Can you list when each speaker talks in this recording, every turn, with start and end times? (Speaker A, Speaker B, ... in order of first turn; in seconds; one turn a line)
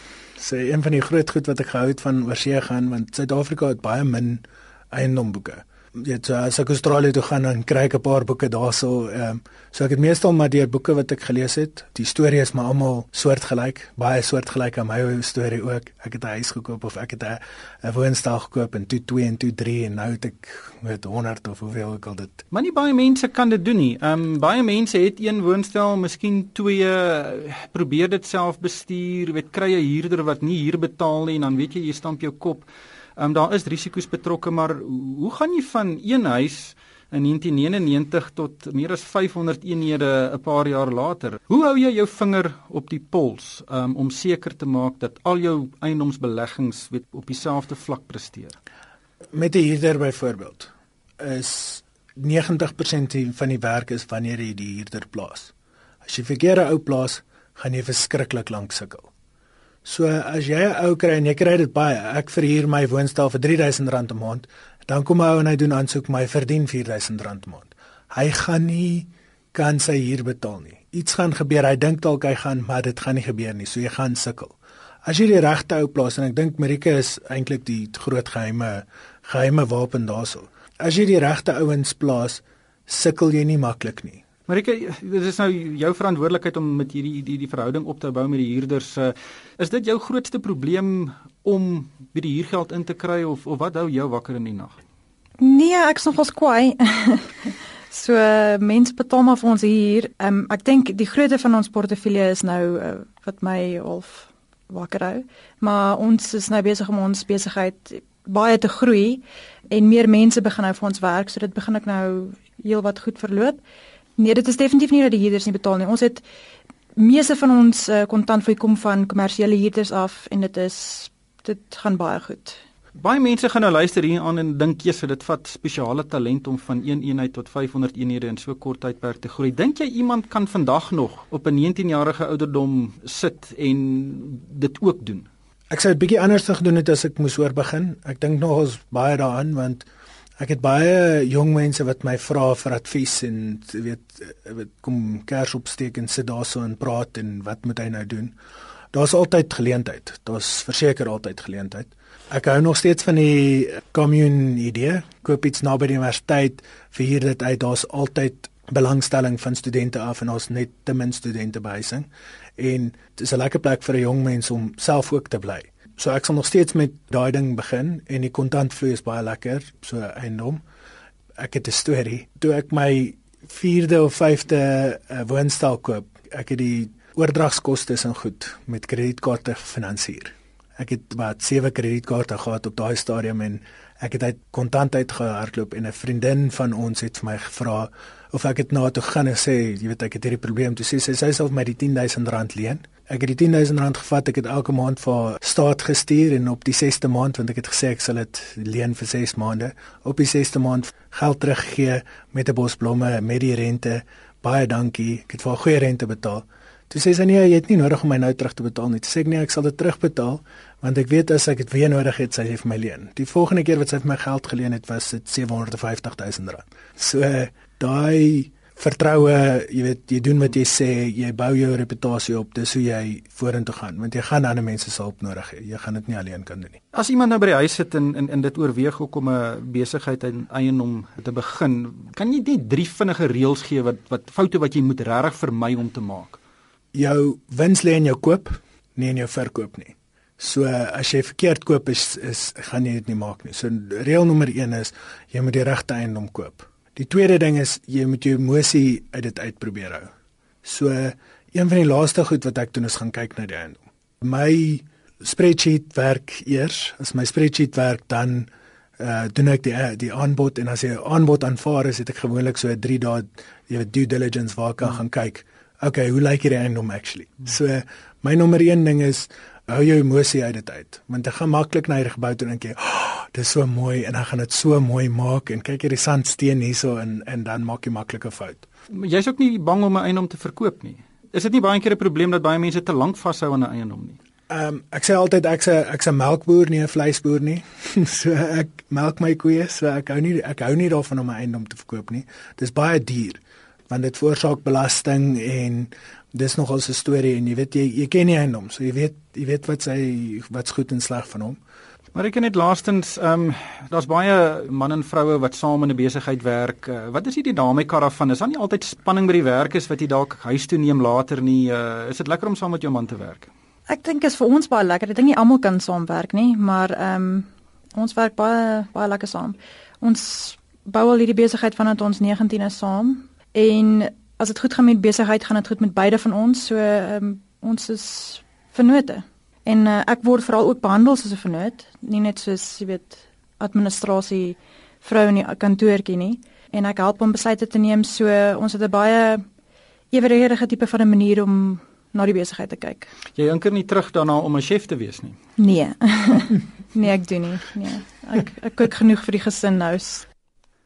Speaker A: 0.4-22.4
Speaker B: 22.5-32.7
Speaker B: 33.2-48.5
Speaker A: 49.3-55.5
Speaker A: 56.0-59.1
Speaker A: 59.9-84.2
Speaker B: 84.5-94.8
Speaker C: 95.4-113.6
Speaker C: 114.2-116.2
Speaker C: 117.0-122.6
Speaker B: 123.0-135.3
Speaker A: 135.7-139.9
Speaker A: 140.4-148.3
Speaker A: 148.9-170.6
Speaker A: 171.4-226.8
Speaker B: 226.9-236.4
Speaker A: 236.9-250.1
Speaker A: 250.6-278.7
Speaker B: 278.9-284.2
Speaker A: 284.5-301.6
Speaker B: 302.1-313.5
Speaker C: 313.9-339.4
Speaker C: 340.1-343.1
Speaker B: 343.4-345.4
Speaker C: 345.6-350.3